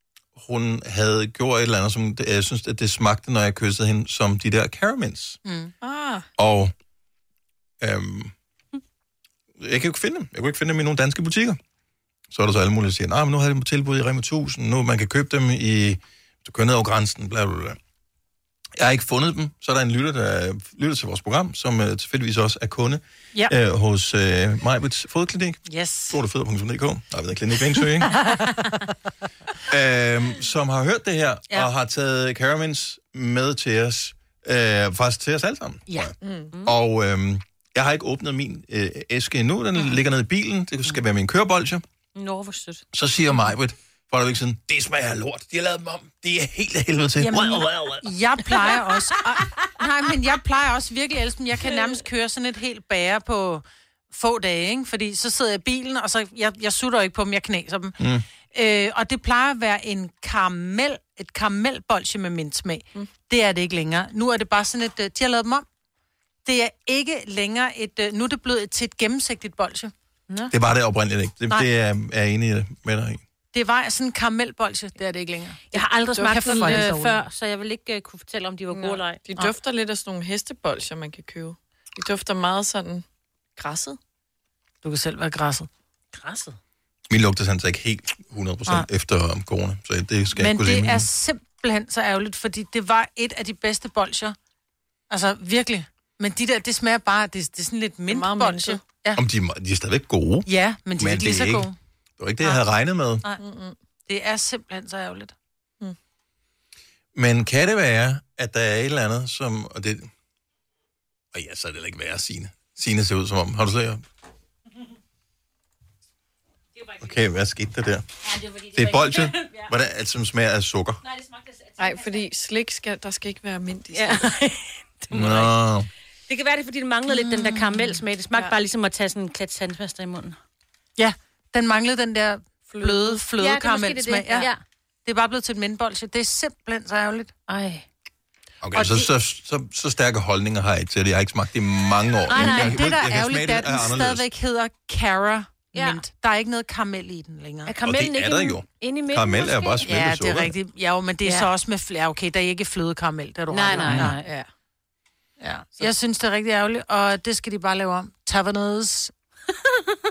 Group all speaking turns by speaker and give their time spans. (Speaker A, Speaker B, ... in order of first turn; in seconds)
Speaker A: 0.3-5.4, 6.4-6.7, 7.8-8.3, 9.6-11.6, 12.3-17.8, 18.8-28.1, 29.7-41.8, 42.9-48.1, 58.0-58.2, 70.5-73.2, 87.1-91.0, 99.1-103.2, 107.1-110.1, 111.3-114.0, 117.0-118.0, 118.7-121.0, 125.1-125.9, 138.6-144.2, 147.8-150.5
Speaker B: 5.4-5.7, 25.7-26.2, 28.2-28.9, 47.2-58.0, 58.5-65.6, 66.4-70.5, 73.5-77.2, 84.8-85.7, 90.4-94.3, 95.1-99.2, 100.5-101.8, 104.1-105.3, 127.1-128.5, 131.0-134.5, 135.1-137.3, 138.7-139.0, 142.3-147.7, 149.8-154.2, 155.4-159.1
Speaker C: 5.8-6.2, 36.2-36.5, 76.2-76.9, 78.7-83.0, 83.5-84.0, 98.1-98.8, 103.4-103.8, 121.8-124.3, 132.7-133.2, 153.8-154.5
Speaker D: 42.1-42.8, 75.7-79.2, 86.1-86.5, 118.2-119.7, 121.0-122.2, 123.9-125.5, 126.3-130.4, 133.3-134.6, 137.5-137.8, 142.3-142.8, 145.7-146.0, 147.7-149.9, 151.2-151.5, 153.5-154.3